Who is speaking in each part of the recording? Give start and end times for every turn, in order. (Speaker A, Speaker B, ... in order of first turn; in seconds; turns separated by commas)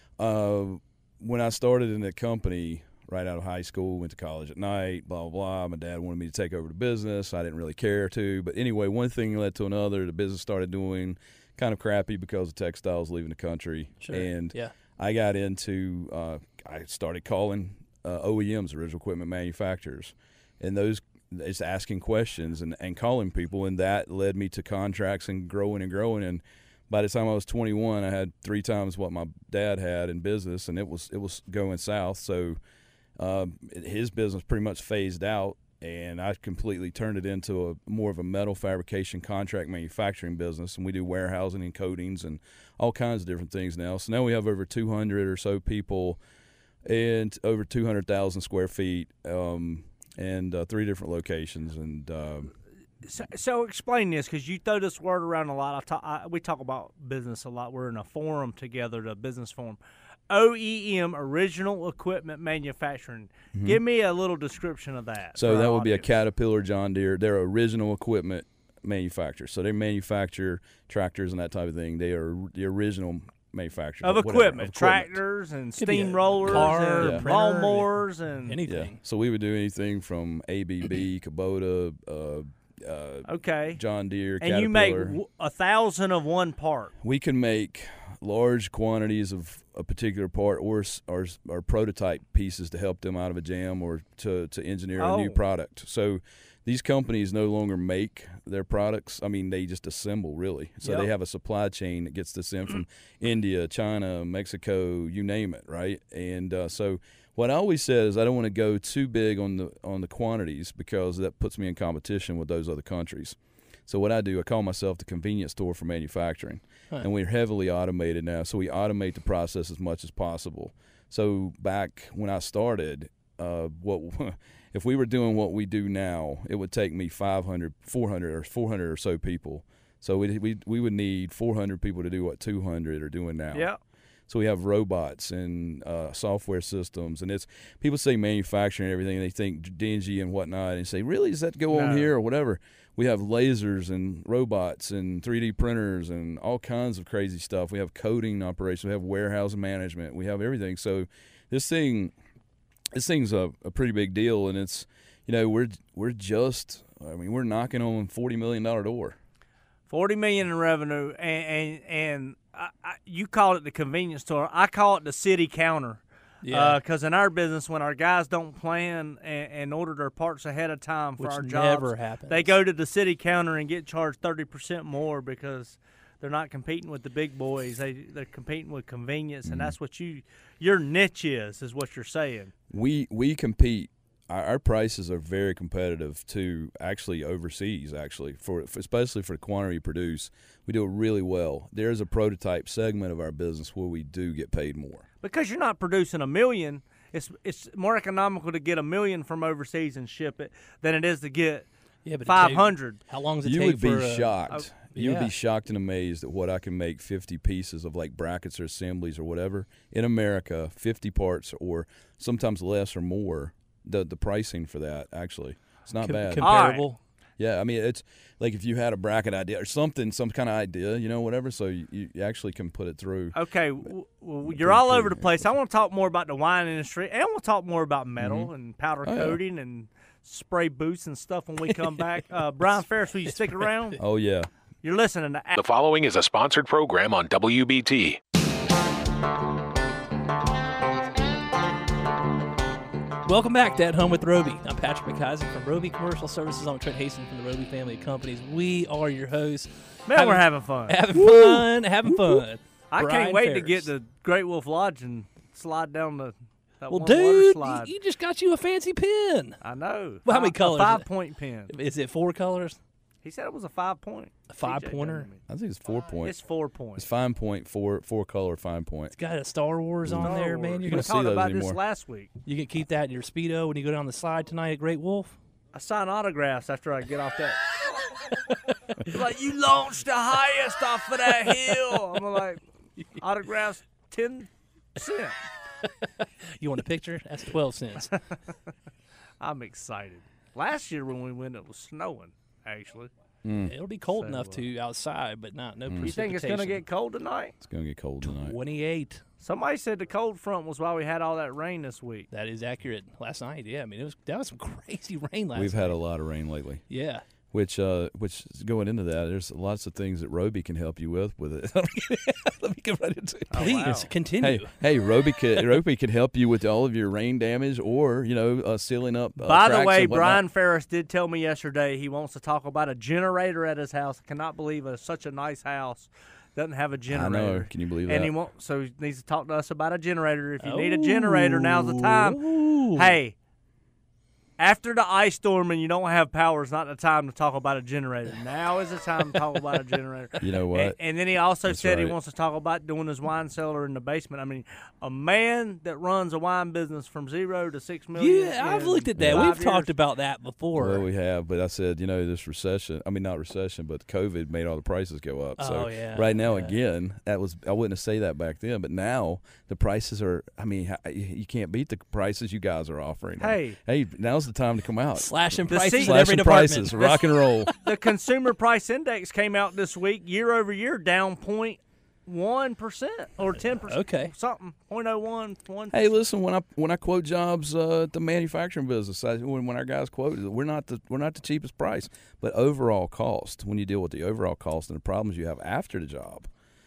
Speaker A: 0.2-32.6, Speaker B: 14.0-14.7, Speaker A: 33.2-46.2, Speaker A: 46.9-52.5, Speaker C: 53.0-59.8, Speaker C: 60.3-66.1, Speaker A: 63.5-63.8, Speaker A: 65.3-75.2, Speaker C: 74.0-78.6, Speaker B: 75.8-77.9, Speaker A: 76.5-77.3, Speaker B: 78.5-79.0, Speaker A: 78.6-85.2, Speaker C: 83.3-83.8, Speaker C: 84.4-86.9, Speaker A: 87.0-133.7, Speaker C: 95.0-95.4, Speaker C: 133.5-133.8, Speaker A: 134.3-152.1, Speaker C: 141.7-142.1, Speaker A: 152.9-159.2, Speaker C: 159.9-182.5, Speaker B: 166.4-166.8, Speaker B: 171.2-172.6, Speaker A: 179.4-179.7, Speaker A: 182.7-195.1, Speaker C: 195.2-201.7, Speaker B: 202.0-204.3, Speaker C: 202.2-203.0, Speaker A: 203.4-216.7, Speaker B: 204.9-205.3, Speaker B: 216.0-217.0, Speaker C: 216.4-216.8, Speaker A: 217.4-223.4, Speaker C: 223.3-234.0, Speaker A: 224.4-225.5, Speaker A: 228.2-228.5, Speaker A: 229.0-229.4, Speaker A: 234.0-234.5, Speaker C: 234.8-235.5, Speaker D: 235.5-238.2, Speaker B: 243.2-253.9, Speaker C: 250.1-251.0, Speaker A: 251.1-252.4, Speaker C: 252.9-257.9, Speaker B: 256.9-259.6, Speaker C: 259.6-261.7, Speaker B: 260.2-261.1, Speaker B: 261.7-262.8, Speaker C: 263.2-265.4, Speaker B: 264.5-265.3, Speaker A: 265.5-266.3, Speaker C: 266.2-267.1, Speaker A: 266.9-269.1, Speaker B: 269.1-271.1, Speaker A: 270.0-270.3, Speaker C: 270.2-272.3, Speaker A: 270.8-271.8, Speaker B: 272.4-275.4, Speaker C: 275.7-277.8, Speaker C: 279.0-282.6, Speaker C: 283.1-285.4, Speaker B: 285.8-288.1, Speaker C: 289.4-293.1, Speaker A: 293.4-293.7, Speaker B: 293.6-296.8, Speaker C: 294.1-294.6, Speaker A: 295.9-296.1, Speaker C: 296.0-297.5, Speaker A: 297.6-298.6, Speaker B: 298.2-299.2, Speaker C: 299.4-302.3, Speaker B: 302.3-306.0, Speaker A: 305.5-306.8, Speaker B: 306.9-307.2, Speaker A: 307.5-313.6, Speaker C: 313.5-314.1, Speaker B: 313.5-314.7, Speaker A: 314.4-320.4, Speaker C: 319.4-333.3, Speaker A: 327.1-328.3, Speaker B: 330.6-333.1, Speaker C: 334.6-349.9, Speaker A: 340.4-341.0, Speaker A: 341.7-342.2, Speaker B: 348.1-351.0, Speaker A: 349.2-349.6, Speaker A: 350.8-367.7, Speaker B: 355.6-356.7, Speaker C: 363.4-363.8, Speaker B: 365.1-367.0, Speaker C: 365.7-376.1, Speaker B: 373.9-374.3, Speaker A: 375.9-386.5